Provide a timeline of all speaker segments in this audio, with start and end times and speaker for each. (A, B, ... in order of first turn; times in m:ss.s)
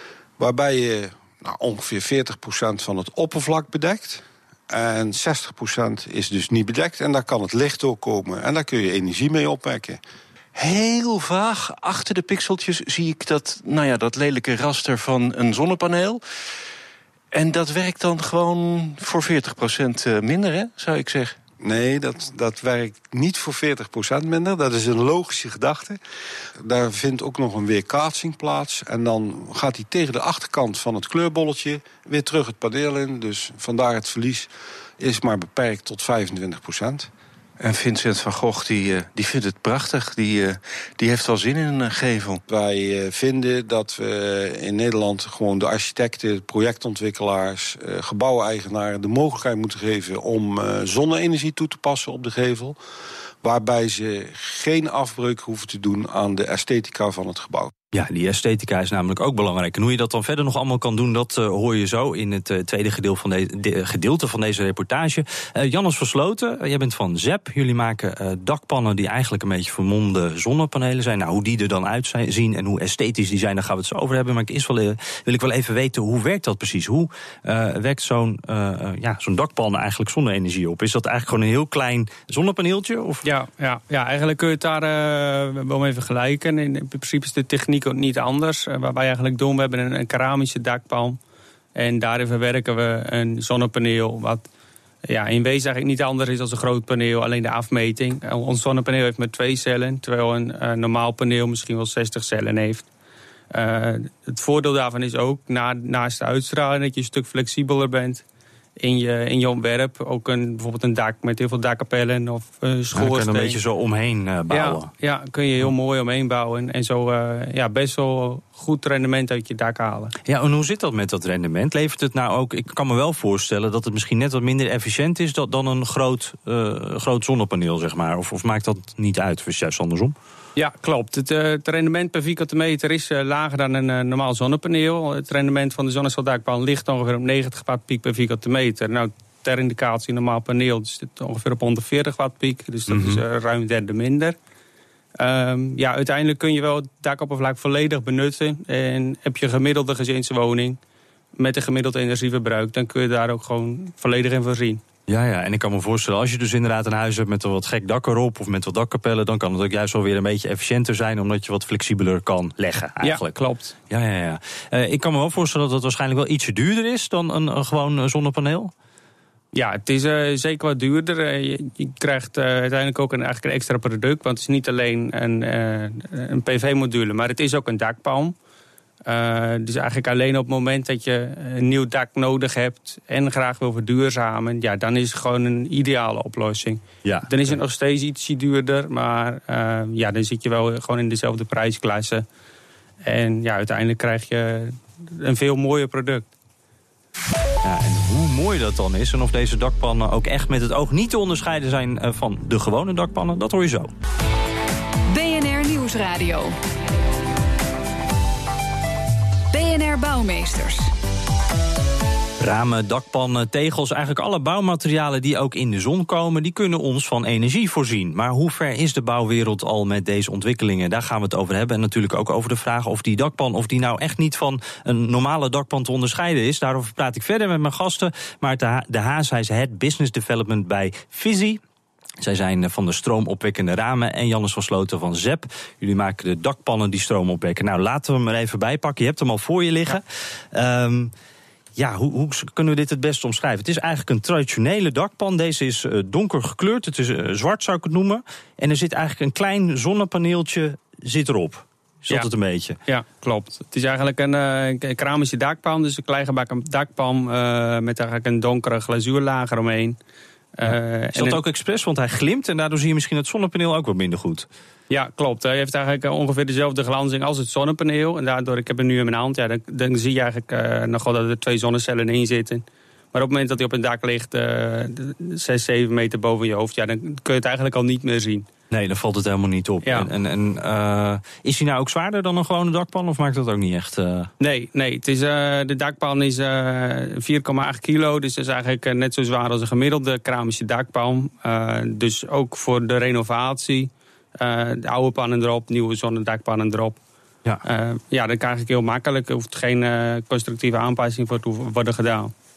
0:00.4-0:10.0 A
0:10.6-0:16.2 B
0:17.3-0:21.4 B
0:21.6-0:26.0 A
0:26.6-0:37.1 A
0:37.6-0:42.4 B
0:42.5-0:52.8 A
0:53.4-0:57.7 A
0:57.9-1:23.2 C
1:23.2-1:31.2 D
1:31.8-1:34.4 D
1:35.1-1:42.9 D
1:43.5-1:48.2 D
1:48.8-1:53.6 D
1:53.0-1:54.9 C
1:54.5-2:00.1 D
2:00.3-2:10.2 C
2:10.6-2:24.4 D
2:22.9-2:23.2 C
2:25.2-2:30.8 D
2:31.4-2:34.8 D
2:35.1-2:43.4 C
2:43.0-2:43.7 D
2:43.9-2:48.7 C
2:49.5-2:58.4 D
2:59.1-3:12.2 D
3:07.0-3:07.5 C
3:13.0-3:16.3 D
3:17.6-3:23.9 C
3:25.1-3:26.6 E
3:29.5-3:30.9 E
3:32.4-3:51.6 C
3:52.2-4:01.1 C
4:01.8-4:12.8 C
4:12.9-4:20.0 D
4:20.6-4:21.4 D
4:20.6-4:24.5 C
4:24.9-4:38.5 D
4:38.7-4:44.3 C
4:39.8-4:40.1 D
4:44.4-4:57.0 D
4:57.6-5:02.3 D